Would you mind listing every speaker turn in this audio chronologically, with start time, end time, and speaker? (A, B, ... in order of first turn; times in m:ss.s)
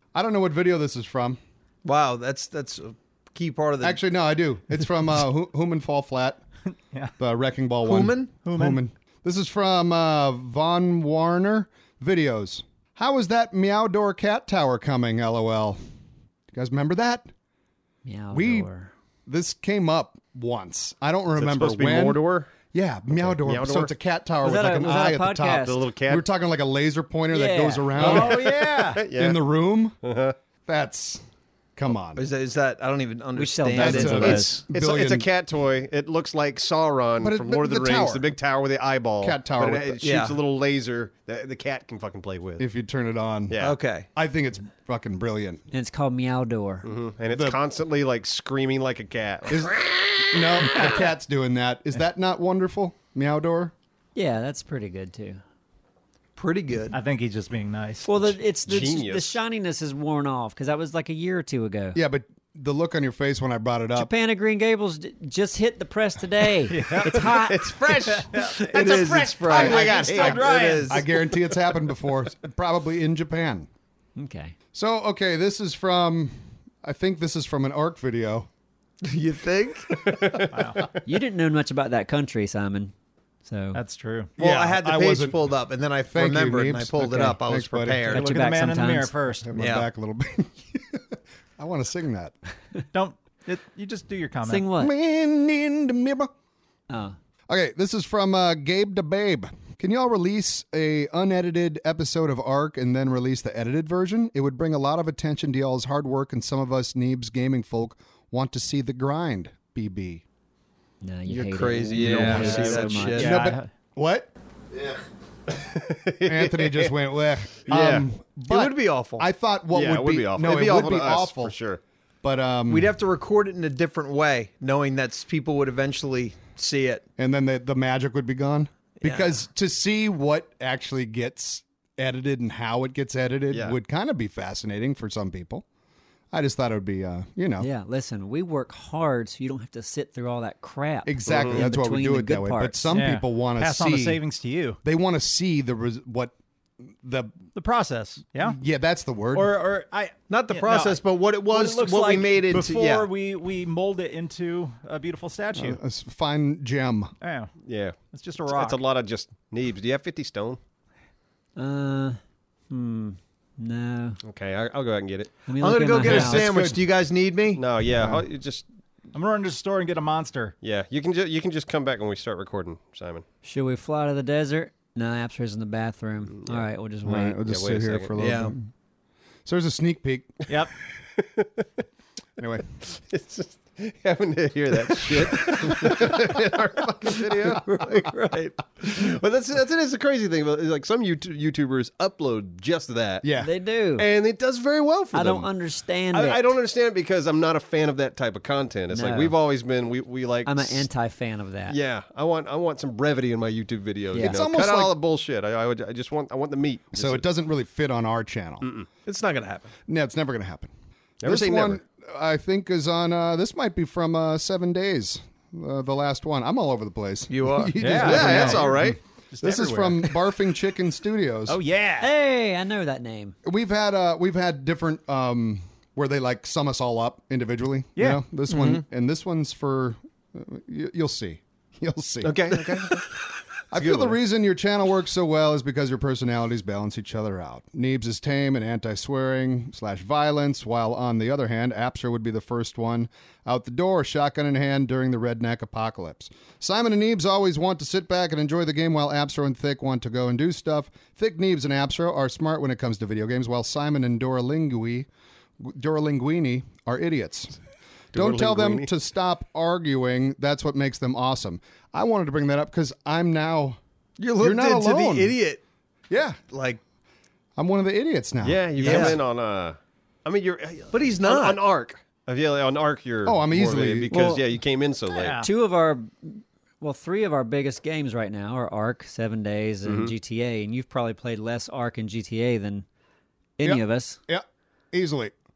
0:00.1-0:01.4 A
0:01.8-0:04.0 B
0:03.8-0:06.4 A
0:07.2-0:15.8 A
0:07.8-0:08.3 B
0:08.4-0:08.8 C
0:16.5-0:17.3 A
0:18.0-0:18.9 D
0:18.3-0:18.7 A
0:19.3-0:30.0 A
0:21.4-0:22.5 E
0:23.1-0:23.9 E
0:24.4-0:25.8 D
0:25.6-0:26.2 E
0:27.3-0:28.2 D
0:28.0-0:29.0 C
0:28.2-0:29.4 E
0:30.0-0:30.3 E
0:30.6-0:31.2 A
0:31.8-0:32.2 A
0:32.2-0:34.6 B
0:33.3-0:34.6 D
0:33.7-0:35.3 A
0:34.3-0:42.6 E
0:37.2-0:38.3 A
0:39.2-0:40.0 A
0:40.0-0:40.4 B
0:42.6-0:43.6 A
0:43.5-0:43.8 E
0:43.6-0:44.1 B
0:44.1-0:45.6 A
0:45.7-0:46.9 D
0:46.8-0:50.4 E
0:47.3-0:47.6 A
0:49.5-0:53.7 A
0:54.1-0:55.4 D
0:56.4-0:57.0 B
0:56.9-0:58.3 C
0:58.0-1:02.0 D
0:58.6-0:59.4 E
1:01.9-1:04.1 A
1:03.9-1:07.9 D
1:06.7-1:11.0 C
1:07.1-1:08.3 E
1:08.4-1:11.2 B
1:09.5-1:13.7 A
1:09.5-1:10.4 E
1:14.2-1:14.5 D
1:14.7-1:18.5 A
1:19.0-1:20.1 B
1:20.0-1:21.0 E
1:20.5-1:20.8 C
1:21.0-1:22.9 D
1:23.4-1:23.8 D
1:23.7-1:24.3 C
1:24.4-1:25.5 A
1:24.4-1:28.2 B
1:26.1-1:28.2 A
1:28.1-1:29.5 C
1:28.1-1:29.1 D
1:29.4-1:32.3 A
1:29.6-1:29.9 B
1:32.9-1:34.7 C
1:34.5-1:34.9 D
1:34.8-1:36.3 A
1:36.9-1:37.2 D
1:37.5-1:50.2 A
1:51.0-1:53.3 D
1:51.3-1:53.4 B
1:51.9-1:52.9 E
1:52.3-1:53.7 C
1:53.2-1:54.3 A
1:54.7-1:55.0 E
1:55.5-1:56.9 E
1:56.2-2:01.5 A
1:57.6-1:58.1 E
1:58.5-1:59.2 B
1:59.7-2:01.8 E
2:02.2-2:02.9 A
2:02.7-2:07.0 B
2:07.2-2:15.6 A
2:09.0-2:09.4 B
2:13.5-2:13.8 E
2:16.3-2:17.7 A
2:17.6-2:22.9 D
2:21.0-2:24.2 A
2:21.3-2:21.6 E
2:22.9-2:24.8 C
2:24.8-2:26.3 A
2:26.8-2:27.4 A
2:27.5-2:28.6 C
2:28.4-2:29.5 A
2:29.3-2:35.8 C
2:30.3-2:33.1 B
2:35.5-2:37.1 A
2:37.2-2:37.5 C
2:37.6-2:40.6 E
2:38.1-2:38.8 C
2:41.6-2:42.2 D
2:42.7-2:44.2 D
2:44.2-2:45.4 E
2:45.4-2:46.5 D
2:45.6-2:47.6 B
2:46.0-2:46.8 A
2:47.5-2:48.6 E
2:47.9-2:48.2 A
2:49.1-2:50.5 C
2:50.6-2:53.2 E
2:53.4-2:57.4 D
2:56.3-2:56.6 E
2:57.0-2:58.7 A
2:57.4-2:58.1 E
2:58.2-2:58.5 B
2:59.4-3:00.4 A
3:00.5-3:00.7 C
3:01.2-3:01.5 E
3:02.4-3:02.6 A
3:02.8-3:13.3 E
3:05.4-3:06.1 A
3:13.2-3:13.5 A
3:13.4-3:14.1 D
3:14.0-3:15.5 E
3:15.1-3:16.5 D
3:16.1-3:20.9 E
3:18.9-3:19.3 D
3:20.4-3:21.8 D
3:21.7-3:27.2 E
3:24.1-3:24.4 D
3:24.2-3:25.0 A
3:26.9-3:28.7 A
3:28.6-3:28.9 E
3:29.0-3:29.7 B
3:29.9-3:30.7 A
3:31.2-3:31.8 E
3:31.2-3:41.6 A
3:37.3-3:38.7 B
3:37.8-3:38.8 C
3:38.0-3:39.0 E
3:39.3-3:40.2 C
3:41.5-3:42.1 C
3:42.0-3:43.4 D
3:43.4-3:53.0 A
3:48.0-3:48.2 C
3:48.5-3:48.8 B
3:52.2-3:53.1 E
3:53.7-4:15.1 A
3:53.8-3:54.2 E
4:15.6-4:17.6 A
4:18.1-4:18.9 E
4:18.1-4:23.8 A
4:24.2-4:25.6 B
4:24.4-4:25.4 A
4:26.1-4:26.4 A
4:26.5-4:26.8 B
4:27.6-4:29.2 A
4:28.4-4:35.4 E
4:28.8-4:29.2 B
4:30.9-4:31.6 B
4:33.2-4:34.4 A
4:35.1-4:35.5 C
4:35.4-4:42.8 D
4:39.8-4:40.1 E
4:43.6-4:44.2 D
4:43.6-4:45.3 A